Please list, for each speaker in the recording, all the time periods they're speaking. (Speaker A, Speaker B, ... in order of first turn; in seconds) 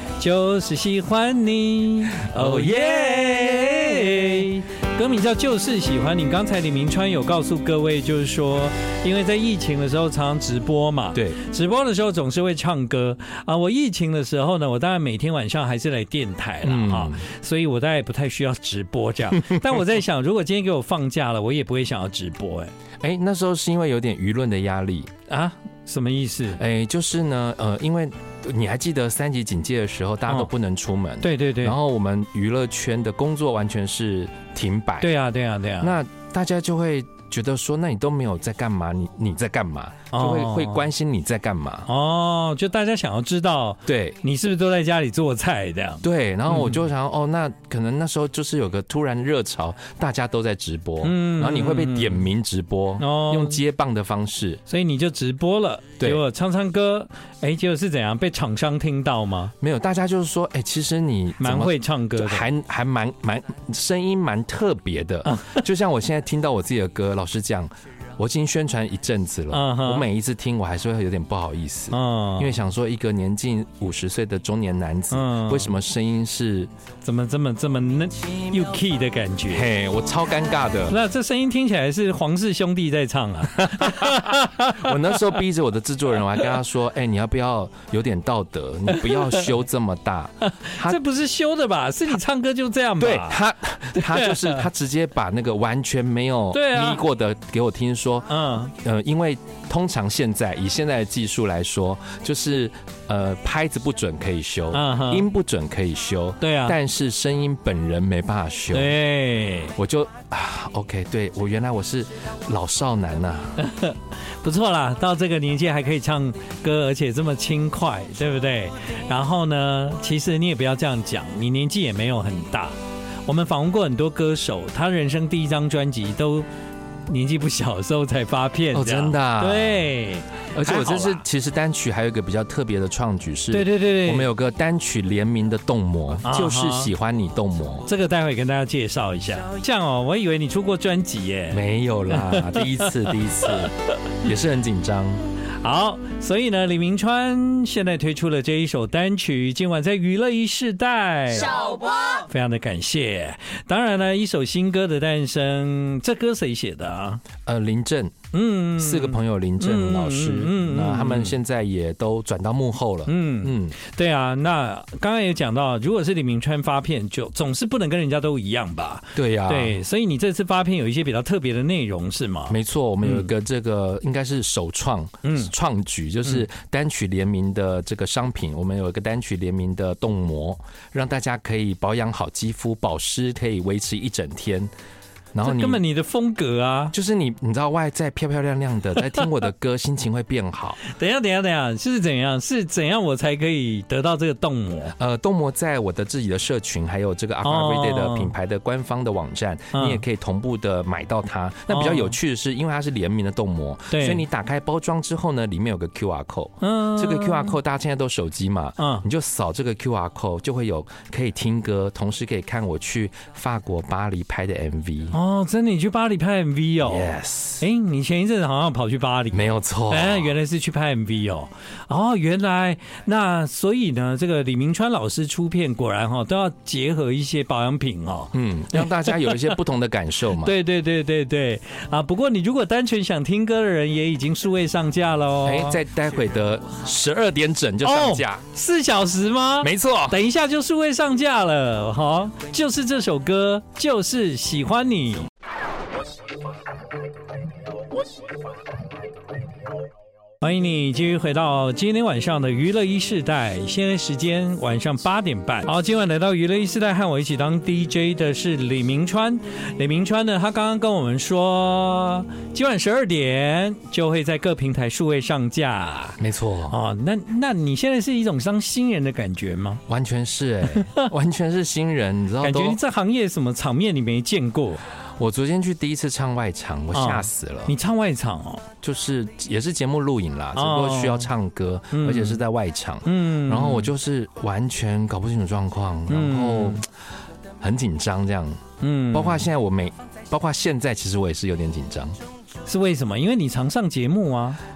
Speaker A: 0.2-22.7, 25.3-26.6, 31.2-31.7, 35.0-36.0, 40.1-40.9, 41.9-46.8, 51.0-52.2, 53.0-53.6, 54.7-59.5, 61.4-62.5, 65.2-65.6, 69.5-70.0, 71.9-72.5, 75.1-75.7, 77.0-79.7, 80.9-85.2, 88.9-89.5, 90.5-93.4, 93.9-94.7, 96.5-97.0, 98.3-98.7, 104.7-105.2, 106.4-106.8, 108.7-109.7, 113.6-122.7, 123.2-126.5, 127.1-131.2, 133.5-134.3, 136.2-136.9, 137.8-143.7, 145.6-157.2, 158.3-161.4, 163.1-173.3, 175.2-175.5, 185.4-186.9, 190.8-194.9, 197.4-198.3, 199.7-200.0, 201.7-202.1, 203.9-204.2, 206.6-207.6, 208.8-209.0, 215.1-229.5, 230.3-235.8, 237.8-245.3, 250.4-269.8, 270.7-271.1, 272.4-274.8, 276.9-278.6, 280.5-281.3, 281.9-282.4, 283.0-283.9, 286.1-286.8, 288.8-289.5, 292.6-294.6
Speaker B: 2.2-4.3, 16.6-17.3, 23.0-25.1, 26.5-35.1, 35.8-41.9, 43.9-44.2, 46.0-54.6, 59.6-76.7, 79.5-81.0, 83.7-91.0, 93.0-109.0, 109.8-113.6, 128.7-129.8, 130.5-137.9, 141.5-143.7, 144.2-145.2, 157.4-158.1, 158.8-163.8, 169.1-169.8, 172.5-184.7, 185.3-185.8, 186.9-190.8, 195.0-215.2, 216.8-217.7, 219.3-220.4, 228.3-230.5, 235.4-238.4, 239.6-240.2, 266.2-266.8, 269.9-272.8, 275.2-277.7, 278.8-286.9, 287.6-292.2